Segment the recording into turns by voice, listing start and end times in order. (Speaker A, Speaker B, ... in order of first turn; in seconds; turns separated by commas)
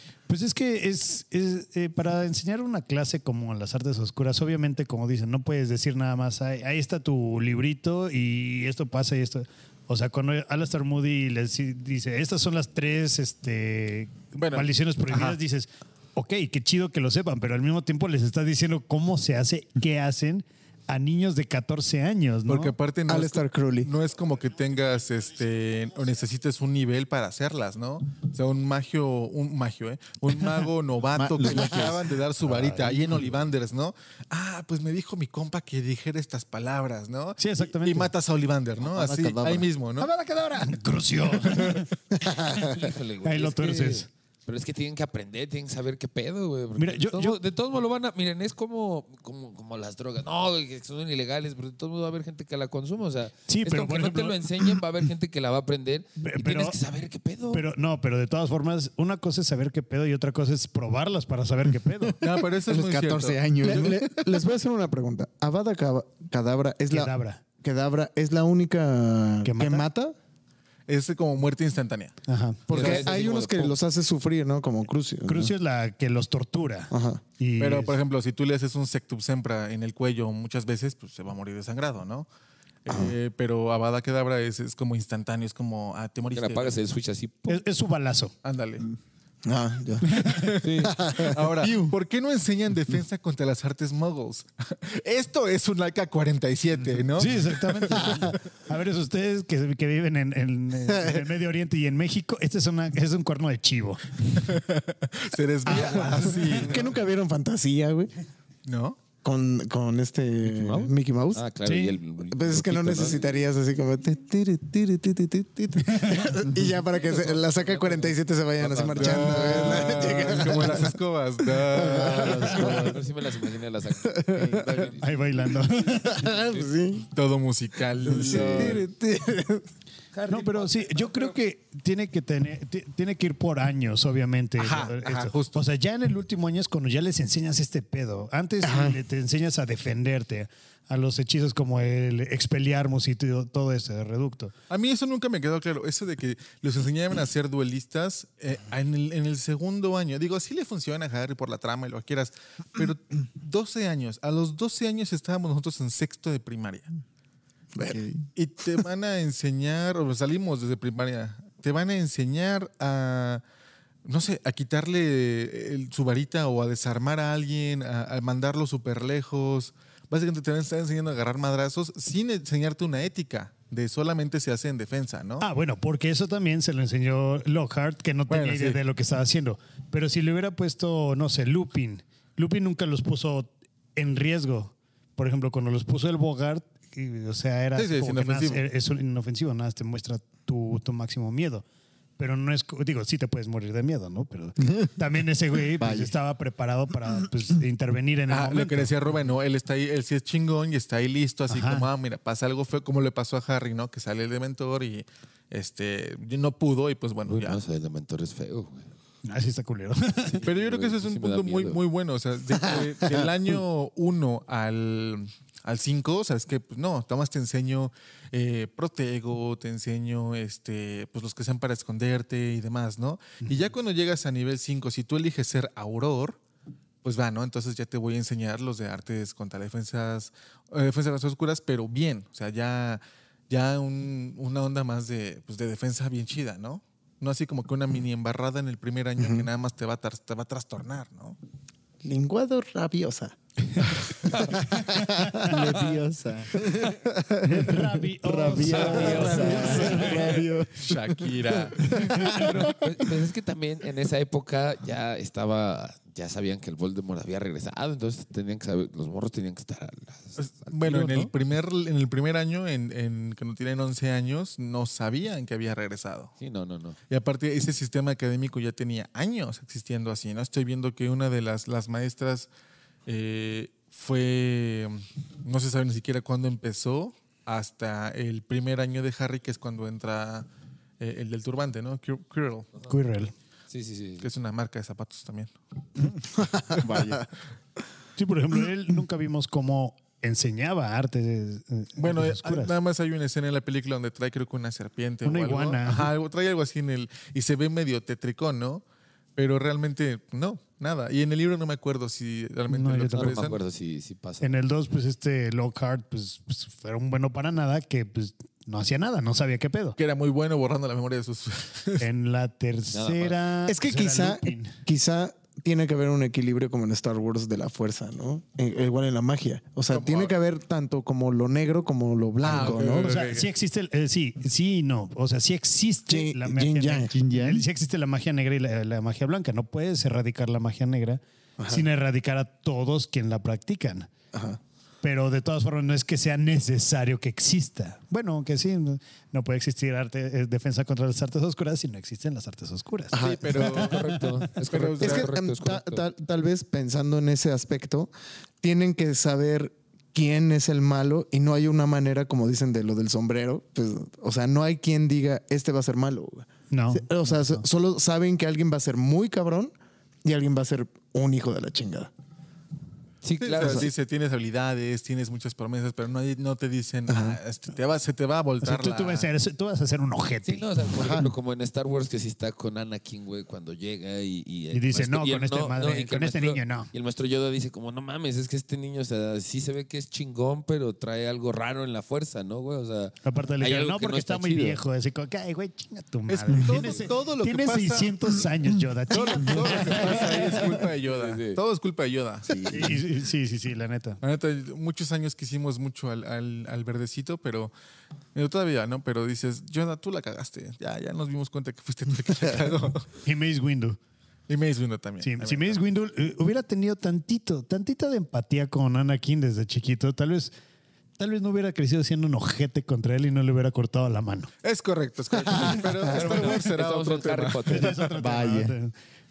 Speaker A: 0.3-22.7, Speaker B: 14.4-14.7, Speaker B: 22.5-40.1, Speaker C: 23.1-23.9, Speaker D: 31.2-32.0, Speaker A: 32.5-32.9, Speaker A: 37.4-38.1, Speaker D: 38.8-39.7, Speaker A: 40.0-41.9, Speaker E: 42.5-57.6, Speaker A: 43.2-44.1, Speaker A: 46.8-47.4, Speaker A: 53.5-54.4, Speaker A: 56.2-56.8, Speaker A: 57.5-62.2, Speaker B: 62.2-64.0, Speaker D: 62.7-64.2, Speaker C: 62.7-70.2, Speaker A: 66.9-67.4, Speaker A: 69.4-69.9, Speaker B: 70.9-72.2, Speaker A: 72.3-72.6, Speaker C: 72.7-75.5, Speaker E: 72.7-73.8, Speaker B: 72.8-73.0, Speaker A: 75.3-78.0, Speaker C: 76.9-77.2, Speaker B: 77.6-82.3, Speaker B: 82.8-86.8, Speaker C: 82.9-83.2, Speaker E: 86.3-87.6, Speaker A: 87.5-88.3, Speaker B: 88.4-88.9, Speaker C: 89.5-91.5, Speaker B: 90.2-98.2, Speaker E: 90.6-91.0, Speaker D: 91.6-91.9, Speaker A: 97.2-104.5, Speaker B: 104.3-106.9, Speaker A: 105.7-106.6, Speaker E: 105.7-106.7, Speaker C: 106.5-108.1, Speaker B: 108.7-109.0, Speaker C: 109.2-111.4, Speaker E: 110.4-113.4, Speaker A: 111.7-112.0, Speaker C: 112.3-121.0, Speaker E: 116.9-120.2, Speaker B: 118.9-123.0, Speaker C: 121.6-123.0, Speaker E: 121.9-125.3, Speaker C: 124.0-124.9, Speaker A: 125.0-126.3, Speaker C: 126.1-127.1, Speaker E: 126.1-126.7, Speaker B: 127.1-128.8, Speaker C: 128.0-129.7, Speaker D: 128.1-128.8, Speaker E: 130.1-131.3, Speaker A: 130.3-144.5, Speaker B: 134.6-135.6, Speaker C: 138.6-139.0, Speaker B: 144.7-156.9, Speaker C: 157.8-158.0, Speaker D: 157.8-158.2, Speaker B: 158.3-163.4, Speaker B: 164.1-175.5, Speaker A: 175.4-191.7, Speaker B: 178.3-178.8, Speaker B: 187.8-188.6, Speaker A: 192.2-198.9, Speaker D: 195.8-196.2, Speaker B: 198.3-207.6, Speaker A: 201.5-201.9, Speaker E: 207.3-208.9, Speaker A: 209.2-210.4, Speaker E: 210.3-211.8, Speaker B: 210.4-226.4, Speaker B: 227.0-241.4, Speaker C: 239.2-239.5, Speaker C: 242.0-245.5, Speaker E: 244.3-244.6, Speaker D: 245.2-251.2, Speaker E: 245.6-245.9, Speaker C: 246.6-247.3, Speaker A: 247.4-250.3, Speaker E: 248.7-250.4, Speaker C: 249.0-250.4, Speaker B: 250.8-252.3, Speaker D: 251.9-252.7, Speaker E: 252.2-261.3, Speaker B: 260.4-266.3, Speaker E: 266.4-267.0, Speaker B: 267.1-272.5, Speaker B: 273.1-280.5, Speaker B: 281.0-282.7, Speaker A: 282.9-283.3, Speaker E: 283.7-284.3, Speaker B: 284.2-285.6, Speaker C: 286.4-287.3, Speaker D: 286.8-287.3, Speaker A: 288.2-292.7, Speaker B: 292.0-298.8, Speaker A: 295.2-296.1, Speaker B: 299.4-303.6, Speaker A: 302.7-303.4, Speaker E: 303.1-304.6, Speaker A: 304.4-310.0, Speaker B: 310.0-312.1, Speaker A: 312.0-314.8, Speaker E: 312.9-313.4, Speaker C: 313.7-323.1, Speaker B: 319.9-320.3, Speaker B: 322.4-323.5, Speaker A: 322.5-334.1, Speaker C: 326.1-327.1, Speaker D: 327.1-327.7, Speaker C: 331.6-331.9, Speaker C: 334.3-334.6, Speaker A: 335.0-343.9, Speaker C: 343.1-343.9, Speaker B: 343.1-345.3, Speaker E: 343.6-346.0, Speaker C: 345.0-348.1, Speaker C: 348.6-359.7, Speaker A: 356.7-357.6, Speaker C: 360.2-362.1, Speaker E: 363.2-363.9, Speaker B: 363.4-369.3, Speaker C: 363.6-363.9, Speaker C: 367.1-367.4, Speaker A: 368.6-370.7, Speaker E: 370.4-384.8, Speaker C: 370.9-371.3, Speaker A: 374.7-376.9, Speaker A: 383.2-390.2, Speaker B: 386.3-388.2, Speaker B: 389.1-392.9, Speaker E: 390.0-391.6, Speaker D: 392.5-393.0, Speaker A: 392.7-394.2, Speaker B: 394.2-397.7, Speaker B: 398.4-403.1, Speaker A: 403.2-404.0, Speaker B: 404.5-405.8, Speaker A: 405.2-410.5, Speaker A: 411.2-414.5, Speaker B: 414.6-418.1, Speaker E: 415.5-418.0, Speaker A: 417.7-418.9, Speaker D: 418.2-418.7